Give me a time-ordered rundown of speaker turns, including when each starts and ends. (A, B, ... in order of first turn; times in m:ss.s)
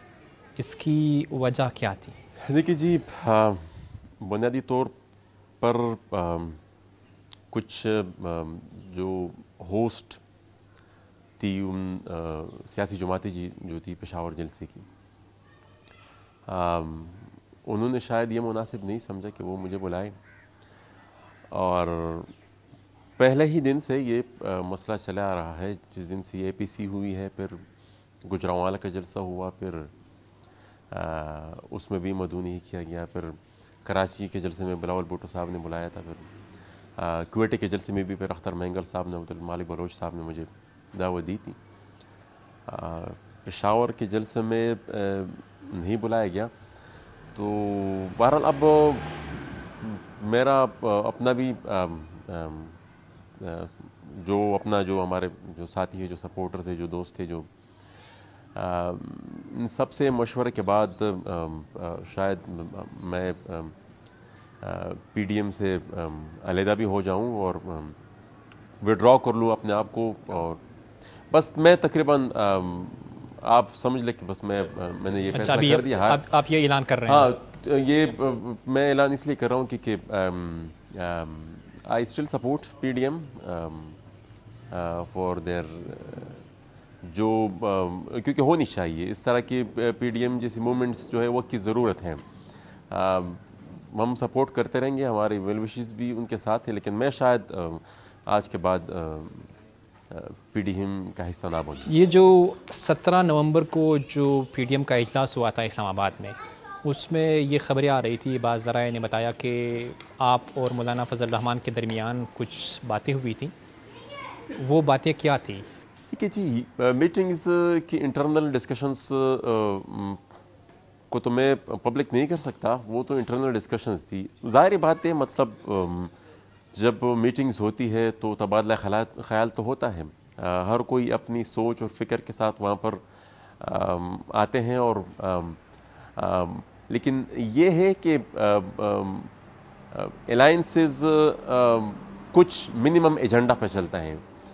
0:00.6-0:02.2 A
0:02.5-0:05.0 B
0:05.6-0:06.6 B
0:07.5-0:10.2 B
0:11.4-0:14.9 B
0:16.5-0:20.1 B
0:21.5-0:22.3 B
0:23.2-0:27.6 B
0:28.2-0:29.9 B
0:30.9-0:36.3 B
0:37.0-0:41.6 B
0:42.7-0:46.5 B
0:47.4-0:52.8 B
0:53.4-0:57.5 B
0:58.6-1:03.8 B
1:04.6-1:08.0 B
1:08.8-1:10.6 B
1:11.3-1:16.2 B
1:15.3-1:17.3 A
1:17.1-1:24.0 B
1:24.7-1:26.4 B
1:27.0-1:32.2 B
1:32.9-1:39.5 B
1:40.1-1:41.9 B
1:41.9-1:53.5 A
1:54.6-1:55.7 A
1:56.1-2:00.2 B
2:01.1-2:06.1 B
2:06.7-2:13.0 B
2:13.6-2:15.6 B
2:16.2-2:19.3 B
2:19.9-2:24.2 B